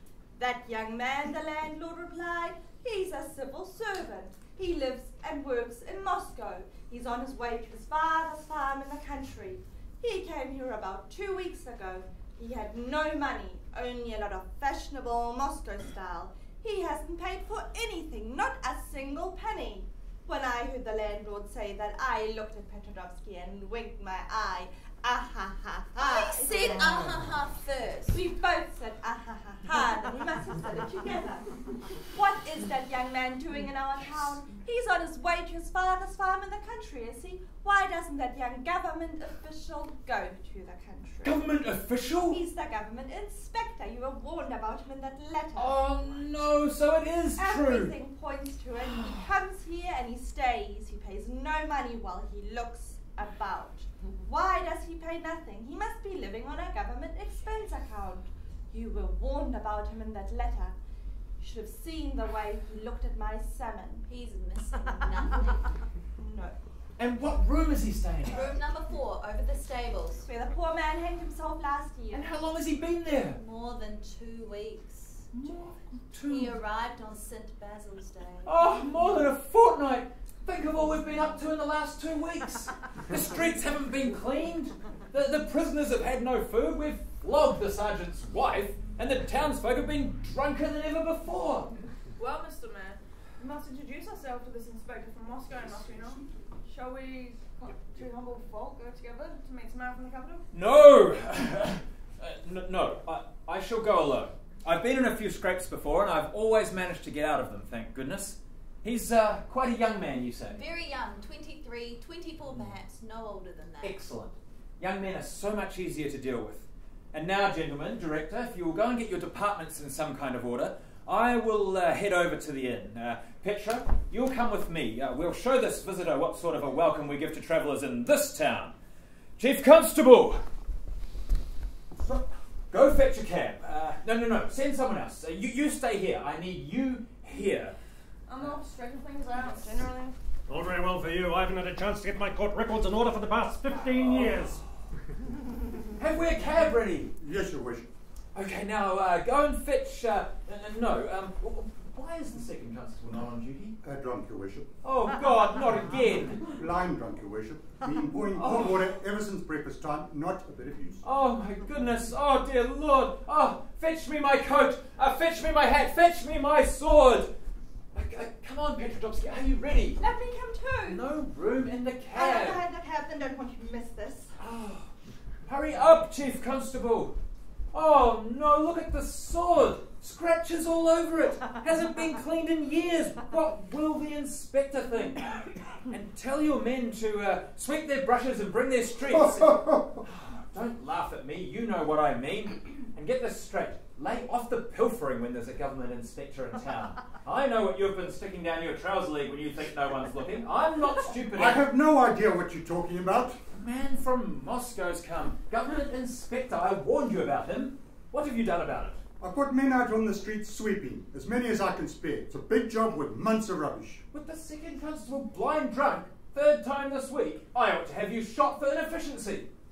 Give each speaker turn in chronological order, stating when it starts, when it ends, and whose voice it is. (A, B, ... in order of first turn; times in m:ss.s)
0:00.4-0:27.2 A
0:26.0-0:28.2 B
0:28.1-0:31.5 A
0:32.1-0:41.5 A
0:41.2-0:42.4 C
0:42.3-0:46.2 A
0:45.6-0:48.0 C
0:47.4-1:00.8 A
1:01.4-1:04.0 A
1:04.0-1:05.6 B
1:06.2-1:06.5 A
1:07.0-1:08.5 C
1:08.3-1:10.3 B
1:10.2-1:12.2 A
1:12.1-1:13.4 C
1:13.3-1:15.3 B
1:15.3-1:16.6 C
1:16.2-1:18.5 B
1:18.4-1:31.7 C
1:32.2-1:40.4 D
1:40.5-1:50.6 C
1:50.5-1:54.0 B
1:53.8-2:08.7 C
2:09.4-2:10.4 C
2:12.0-2:17.8 C
2:18.3-2:20.2 D
2:20.5-2:24.6 E
2:26.0-2:27.1 C
2:27.2-2:27.8 F
2:28.3-2:33.8 C
2:33.8-2:34.7 F
2:34.8-2:36.6 C
2:36.6-2:41.0 F
2:38.4-2:38.9 C
2:41.0-2:47.3 C
2:47.9-2:50.0 C
2:50.0-2:51.0 A
2:50.8-2:52.6 C
2:52.1-2:54.3 A
2:54.4-2:54.9 C
2:55.4-2:57.2 C
2:57.7-3:21.6 C
3:21.3-3:23.4 F
3:23.5-3:29.0 C
3:29.2-3:34.0 F
3:34.1-3:39.5 C